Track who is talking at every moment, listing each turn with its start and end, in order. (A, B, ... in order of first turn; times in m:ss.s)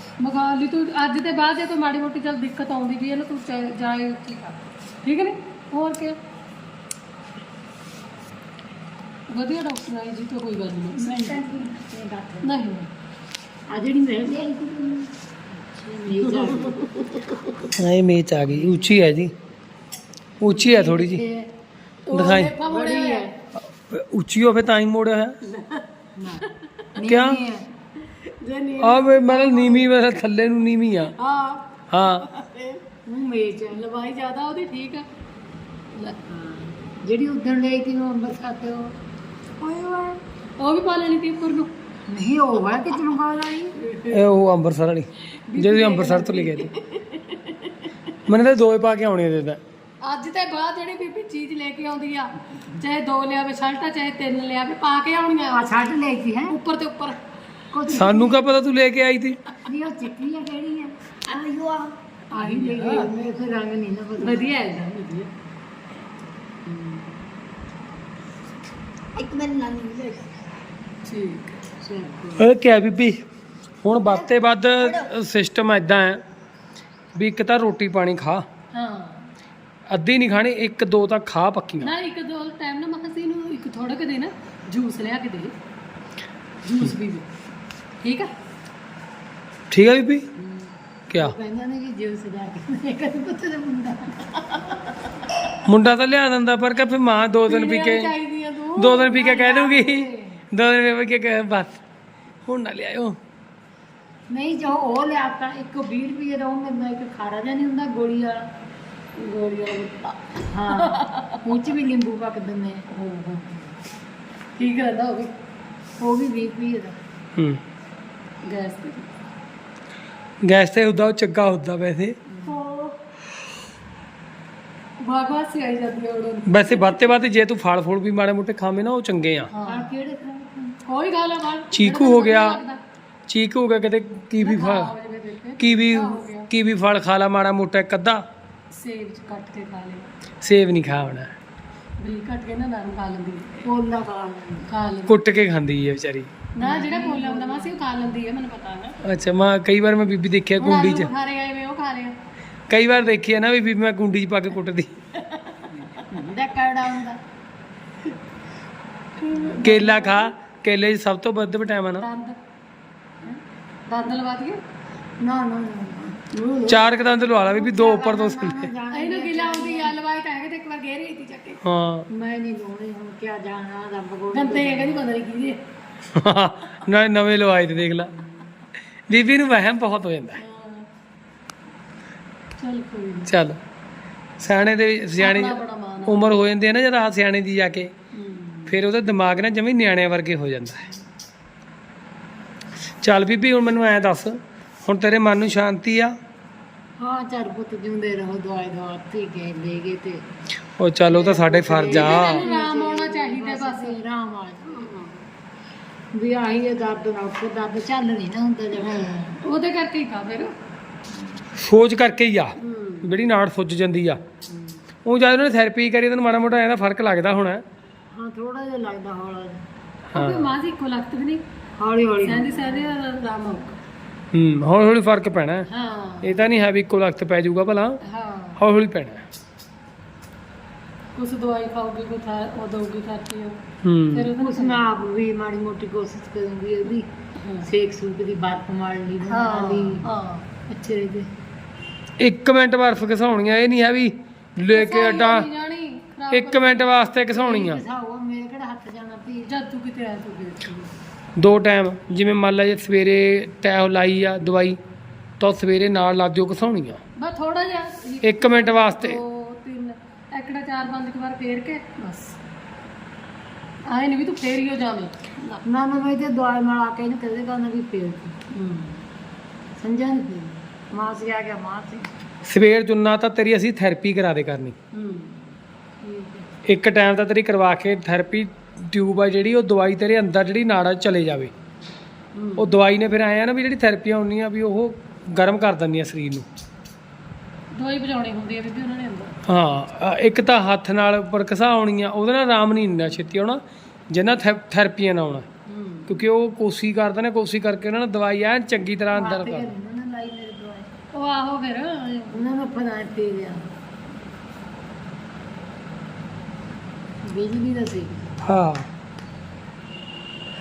0:00.2-0:06.2 A
0:09.3-0:11.1 A
0:11.0-0:12.6 B
0:12.4-0:12.9 A
0:13.7-0:17.7 B
0:16.2-0:16.7 A
0:17.7-0:19.3 C
0:20.4-0:21.2 C
0:20.4-0:21.5 B
0:22.1-0:23.4 A
0:22.1-0:22.6 C
0:22.6-0:23.4 B
0:23.6-0:25.4 C
0:25.4-0:25.9 A
0:26.2-0:27.7 B
0:27.0-0:27.4 C
0:28.2-0:30.1 A
0:28.8-0:31.2 C
0:31.2-0:32.8 A
0:31.9-0:32.2 C
0:33.1-0:33.9 B
0:33.7-0:35.1 A
0:36.3-0:39.0 B
0:39.8-0:40.2 B
0:40.6-0:41.7 A
0:42.1-0:44.2 B
0:44.1-0:46.7 C
0:45.5-0:46.7 A
0:48.3-0:49.6 C
0:50.0-0:56.0 A
0:55.5-0:56.6 B
0:56.5-0:57.2 A
0:57.7-0:58.5 B
0:57.9-0:59.4 C
0:59.7-1:01.0 B
1:01.3-1:01.9 D
1:02.3-1:04.7 B
1:02.4-1:03.1 A
1:04.2-1:05.3 A
1:06.6-1:07.1 B
1:09.2-1:10.4 D
1:11.0-1:11.6 A
1:11.8-1:12.5 B
1:12.4-1:13.2 C
1:13.8-1:16.2 C
1:14.8-1:15.1 D
1:17.2-1:18.5 C
1:18.7-1:19.3 A
1:19.9-1:21.9 C
1:21.8-1:25.5 A
1:26.6-1:27.3 A
1:28.0-1:28.3 A
1:29.7-1:30.3 C
1:30.4-1:34.8 B
1:31.1-1:31.4 C
1:35.7-1:38.1 C
1:37.5-1:39.2 A
1:38.8-1:41.8 C
1:39.1-1:40.4 B
1:42.4-1:43.2 C
1:44.3-1:48.4 B
1:49.2-1:51.4 A
1:50.5-1:52.9 B
1:52.9-1:53.6 A
1:54.6-1:55.3 A
1:56.0-1:57.0 B
1:57.4-1:57.6 C
1:58.4-1:59.1 A
2:00.4-2:02.2 C
2:02.3-2:02.7 B
2:02.5-2:02.7 A
2:05.0-2:07.2 A
2:06.5-2:09.5 C
2:09.5-2:09.9 A
2:09.6-2:10.8 B
2:10.8-2:12.8 A
2:11.7-2:12.6 C
2:13.3-2:14.9 C
2:14.4-2:16.5 A
2:15.6-2:18.2 C
2:18.7-2:20.1 A
2:20.4-2:21.4 C
2:22.0-2:23.7 A
2:23.6-2:24.7 B
2:24.7-2:25.2 A
2:25.1-2:26.3 C
2:26.6-2:29.0 A
2:26.6-2:27.8 B
2:29.0-2:31.1 C
2:30.6-2:32.2 A
2:32.7-2:35.0 C
2:35.3-2:36.0 A
2:35.7-2:37.2 B
2:39.3-2:40.3 A
2:39.3-2:39.8 B
2:39.6-2:42.1 C
2:42.0-2:42.4 A
2:43.9-2:44.6 A
2:45.2-2:50.0 B
2:46.7-2:48.7 C
2:48.9-2:51.6 A
2:51.6-2:52.1 C
2:52.1-2:55.1 B
2:54.3-2:55.6 A
2:56.1-2:58.1 C
2:59.1-3:00.4 C
3:00.4-3:00.9 A
3:02.6-3:03.3 A
3:03.3-3:03.6 C
3:04.4-3:07.9 C
3:05.2-3:06.3 A
3:08.2-3:08.6 A
3:08.7-3:10.9 C
3:13.0-3:16.2 C
3:17.0-3:20.3 B
3:20.8-3:22.4 C
3:21.1-3:25.0 B
3:21.9-3:24.0 A
3:26.1-3:29.4 B
3:28.9-3:30.5 A
3:31.1-3:31.4 B
3:31.6-3:34.2 C
3:32.6-3:33.1 A
3:34.5-3:34.8 B
3:35.0-3:37.6 C
3:38.1-3:39.6 B
3:40.1-3:40.5 C
3:40.2-3:41.4 A
3:41.8-3:43.0 B
3:42.2-3:43.8 A
3:44.3-3:45.7 C
3:45.7-3:46.4 A
3:46.2-3:48.0 C
3:48.1-3:48.6 A
3:48.3-3:48.6 B
3:48.6-3:49.3 C
3:51.2-3:53.6 A
3:53.8-3:54.3 C
3:54.1-3:54.9 A
3:54.4-3:57.1 B
3:57.4-3:57.7 A
3:57.6-4:01.3 B
3:59.2-4:00.5 A
4:02.2-4:05.5 C
4:04.7-4:07.2 A
4:06.3-4:07.8 C
4:07.2-4:09.5 B
4:09.5-4:10.9 A
4:11.4-4:14.8 C
4:15.4-4:17.0 C
4:17.2-4:22.4 A
4:18.2-4:19.2 C
4:23.9-4:25.6 A
4:25.6-4:28.4 B
4:28.5-4:29.0 A
4:29.8-4:32.2 B
4:32.5-4:34.8 C
4:34.9-4:35.5 A
4:36.0-4:36.4 A
4:36.7-4:41.5 C
4:42.3-4:42.7 A
4:42.6-4:46.5 C
4:47.7-4:49.4 A
4:49.5-4:55.5 C
4:55.7-4:56.2 A
4:56.1-4:59.7 C
4:59.1-5:00.9 B
5:01.1-5:02.4 A
5:02.3-5:03.7 B
5:07.2-5:08.3 B
5:08.4-5:08.9 C